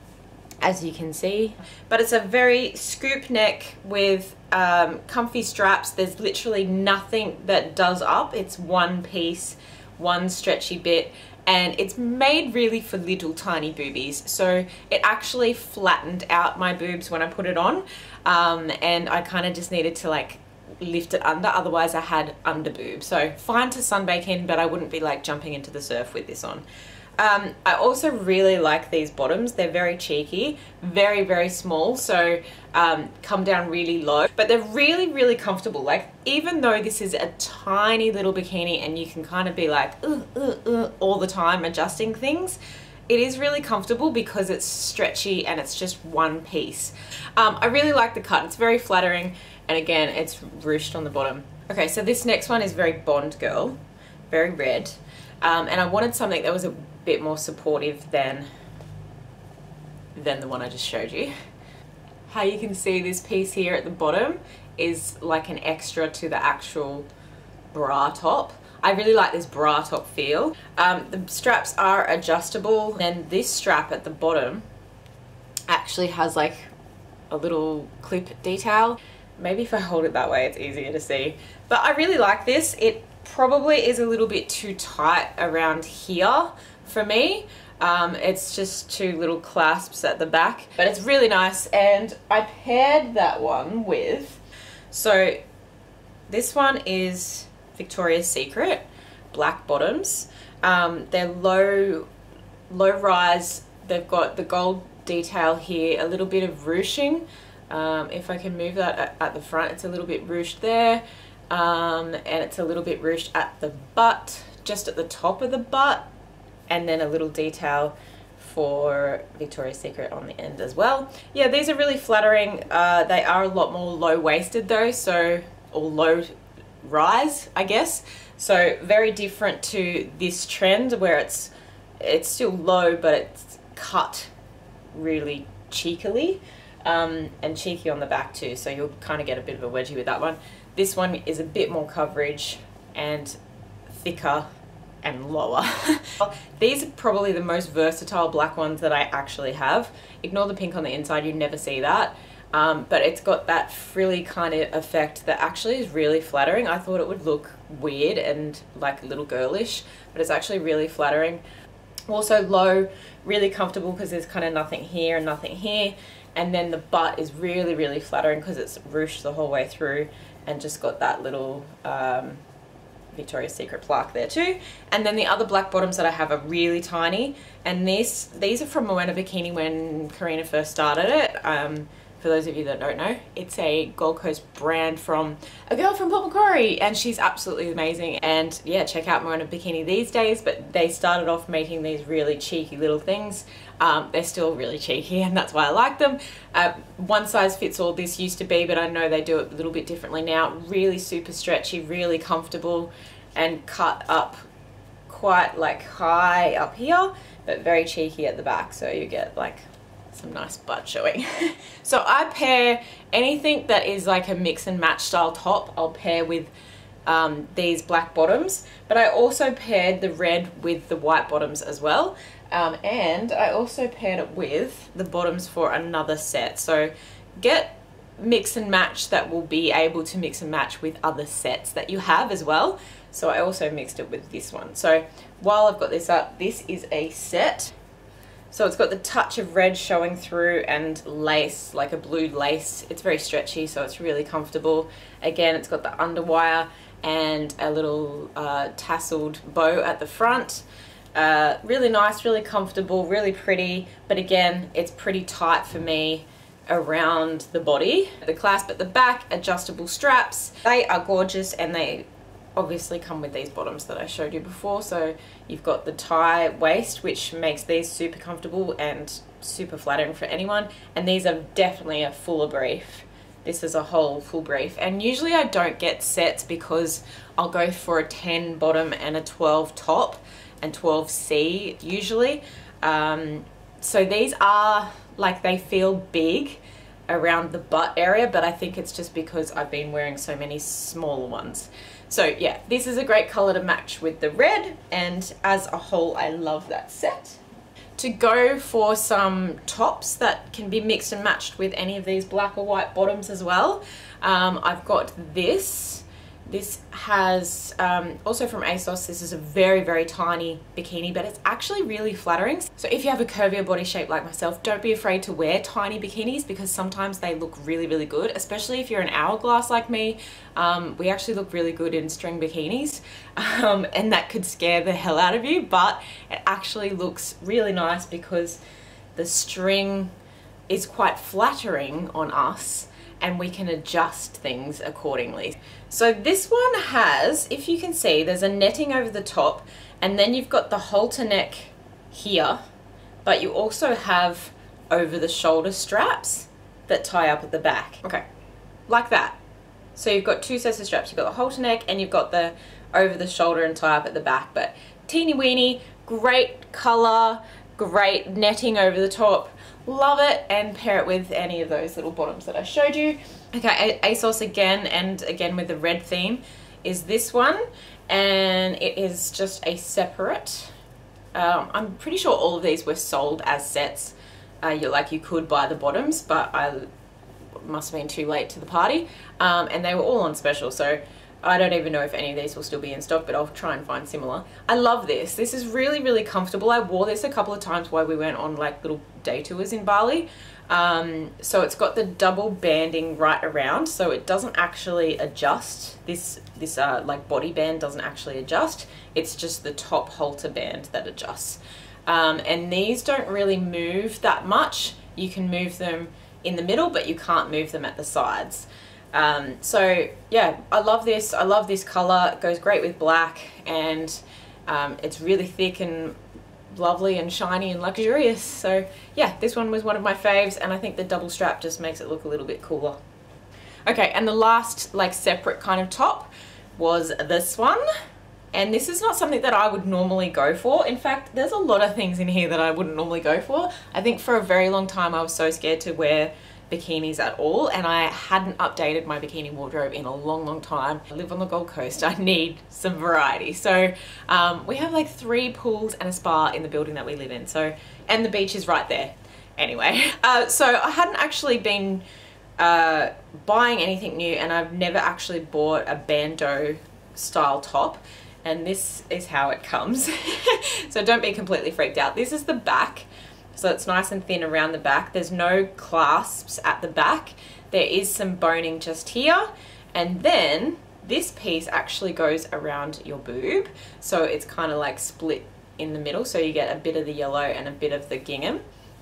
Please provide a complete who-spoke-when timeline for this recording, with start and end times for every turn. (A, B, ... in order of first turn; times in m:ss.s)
0:00.6-0:26.6 A
0:27.2-0:53.8 A
0:54.3-0:58.5 A
1:00.2-1:01.3 A
1:02.3-1:07.1 A
1:07.7-1:14.6 A
1:15.7-1:16.7 A
1:17.3-1:34.4 A
1:34.9-1:35.4 A
1:36.3-1:42.1 A
1:42.7-1:56.1 A
1:56.7-2:14.3 A
2:14.9-2:23.4 A
2:23.9-2:24.5 A
2:25.0-2:41.4 A
2:42.1-2:52.4 A
2:53.1-3:24.4 A
3:25.1-3:36.5 A
3:37.1-3:57.8 A
3:58.5-4:10.6 A
4:11.2-4:57.4 A
4:58.0-5:28.6 A
5:29.2-5:30.1 A
5:30.7-5:42.6 A
5:43.2-5:48.2 A
5:48.9-5:49.4 A
5:50.0-6:10.7 A
6:11.3-6:16.9 A
6:17.6-6:56.2 A
6:56.7-7:03.0 A
7:03.9-7:07.8 A
7:08.5-7:32.0 A
7:32.6-7:58.6 A